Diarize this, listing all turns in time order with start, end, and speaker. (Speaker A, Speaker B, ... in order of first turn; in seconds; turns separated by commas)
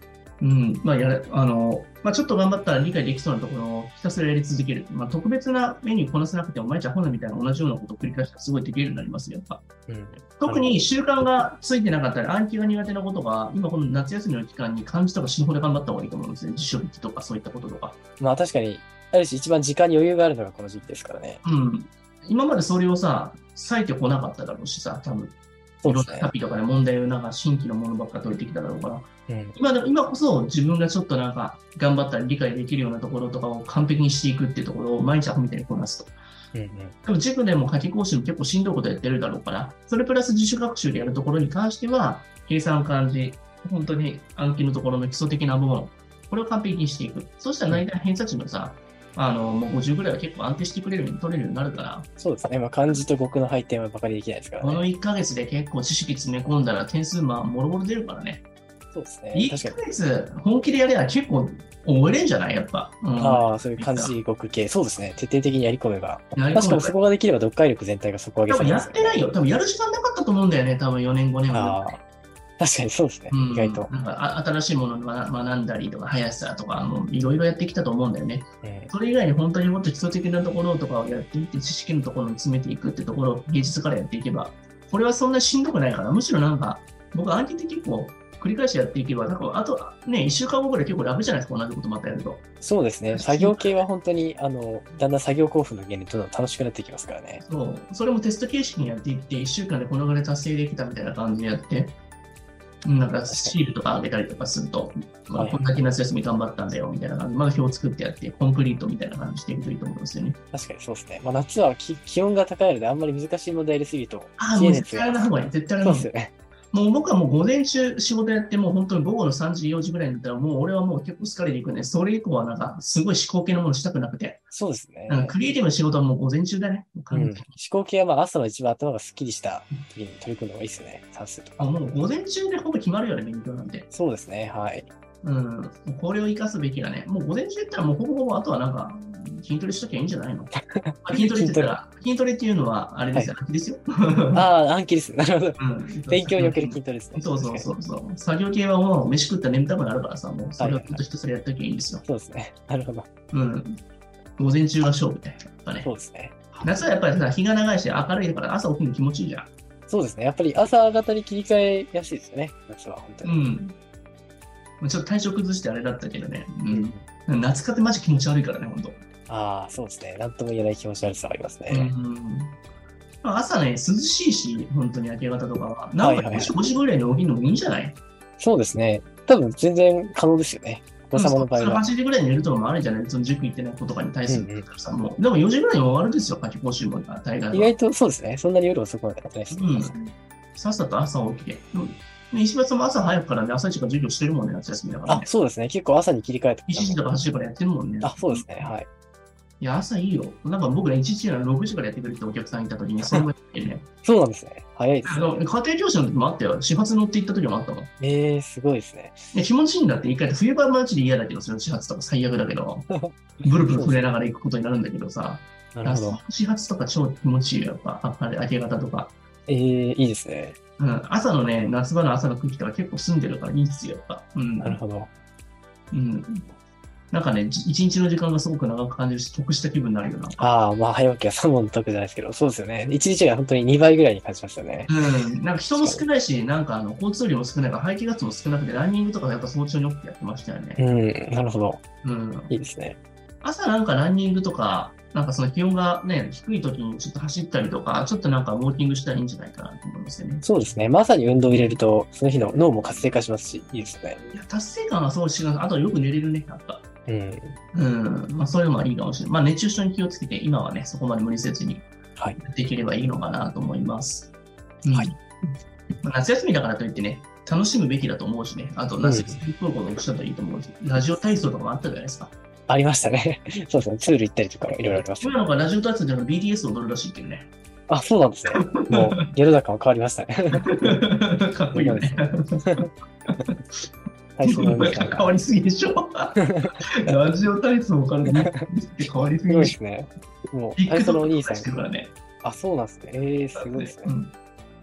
Speaker A: 0.4-9.6, Speaker B: 9.9-10.8, Speaker A: 10.4-18.0, Speaker B: 18.2-21.4, Speaker A: 21.4-36.1, Speaker B: 25.8-26.3, Speaker B: 29.3-29.6, Speaker B: 36.5-36.9, Speaker A: 37.0-52.1, Speaker B: 52.2-54.9, Speaker A: 54.6-58.4, Speaker B: 58.9-59.8, Speaker A: 59.3-64.2, Speaker B: 63.2-69.2, Speaker A: 66.3-67.0, Speaker A: 68.5-71.8, Speaker B: 71.5-72.0, Speaker B: 72.6-73.9, Speaker A: 73.3-92.4, Speaker B: 78.6-78.9, Speaker B: 92.6-97.4, Speaker A: 93.1-93.8, Speaker A: 97.5-101.9, Speaker A: 102.8-110.4, Speaker B: 103.3-103.5, Speaker B: 105.3-105.6, Speaker B: 110.5-115.3, Speaker A: 114.4-116.1, Speaker B: 115.8-116.3, Speaker A: 116.7-124.5, Speaker B: 124.5-125.3, Speaker A: 125.1-127.5, Speaker B: 127.1-132.0, Speaker A: 131.6-133.9, Speaker B: 133.9-134.9, Speaker A: 135.2-140.5, Speaker B: 140.8-141.8, Speaker A: 141.0-144.4, Speaker B: 144.3-147.7, Speaker A: 145.6-152.0, Speaker B: 150.6-151.0, Speaker B: 152.0-153.1, Speaker A: 153.3-153.8, Speaker A: 154.4-155.9, Speaker B: 155.8-156.8, Speaker A: 156.6-159.5, Speaker B: 159.9-163.4, Speaker A: 163.2-163.8, Speaker A: 164.8-169.0, Speaker B: 166.7-167.0, Speaker B: 169.3-171.9, Speaker A: 171.7-172.5, Speaker A: 173.2-178.0, Speaker B: 176.0-176.6, Speaker B: 178.4-181.8, Speaker A: 181.1-187.8, Speaker B: 184.3-184.7, Speaker B: 187.5-189.9, Speaker A: 189.5-195.3, Speaker B: 195.1-197.0, Speaker A: 196.7-198.5, Speaker B: 198.0-198.9, Speaker A: 199.6-203.9, Speaker B: 204.0-205.4, Speaker A: 205.1-207.9, Speaker B: 208.0-209.2, Speaker A: 209.3-212.9, Speaker B: 212.9-214.1, Speaker A: 213.4-219.1, Speaker B: 215.7-216.2, Speaker B: 219.5-220.6, Speaker A: 220.8-224.8, Speaker B: 224.6-225.1, Speaker A: 225.9-226.4, Speaker A: 227.1-230.4, Speaker B: 230.4-234.9, Speaker A: 234.9-240.8, Speaker B: 235.7-236.0, Speaker B: 240.8-241.8, Speaker A: 242.0-242.5, Speaker B: 242.5-243.0, Speaker A: 243.4-250.4, Speaker B: 250.4-254.2, Speaker A: 254.3-256.9, Speaker B: 257.1-257.6, Speaker A: 257.7-261.9, Speaker A: 262.4-264.3, Speaker A: 264.8-265.2, Speaker A: 266.0-272.3, Speaker B: 269.0-269.4, Speaker B: 272.7-275.4, Speaker A: 274.9-277.5, Speaker B: 277.9-281.0, Speaker A: 278.5-279.2, Speaker A: 280.6-282.9, Speaker B: 281.7-282.9, Speaker B: 284.4-285.3, Speaker A: 284.4-289.7, Speaker B: 286.4-287.1, Speaker B: 288.3-288.6, Speaker B: 289.5-291.8, Speaker A: 290.8-292.1, Speaker B: 292.4-294.1, Speaker A: 293.5-294.3